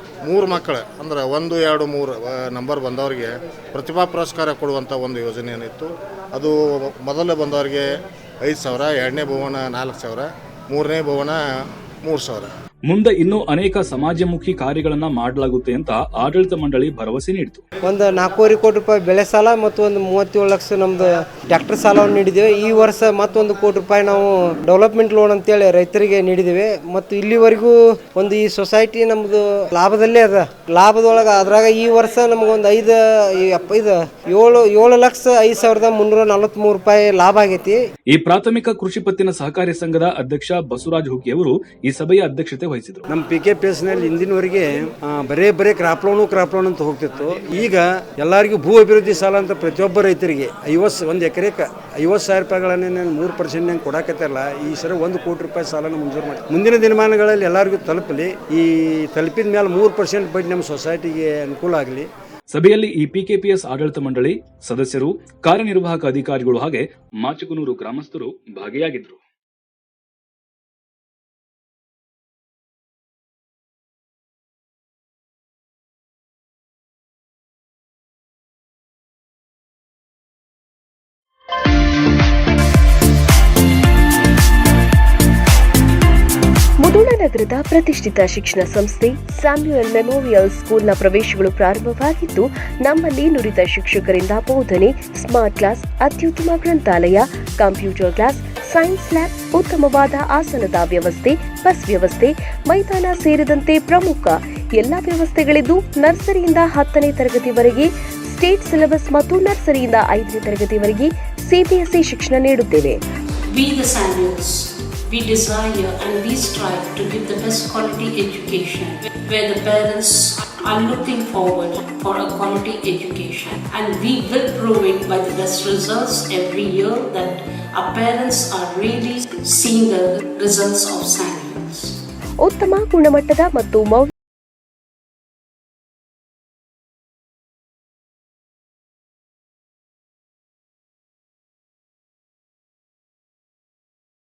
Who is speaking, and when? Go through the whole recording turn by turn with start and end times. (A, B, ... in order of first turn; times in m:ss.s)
0:00.2-0:07.9 A
0:08.4-0:11.4 A
0:12.0-0:12.5 A
0:12.9-0:17.6 B
0:17.9-0:37.8 C
0:38.1-0:43.0 B
0:43.1-1:02.1 D
1:02.5-1:09.2 B
1:26.8-1:53.0 E
1:53.5-2:12.0 F
2:12.4-2:14.1 E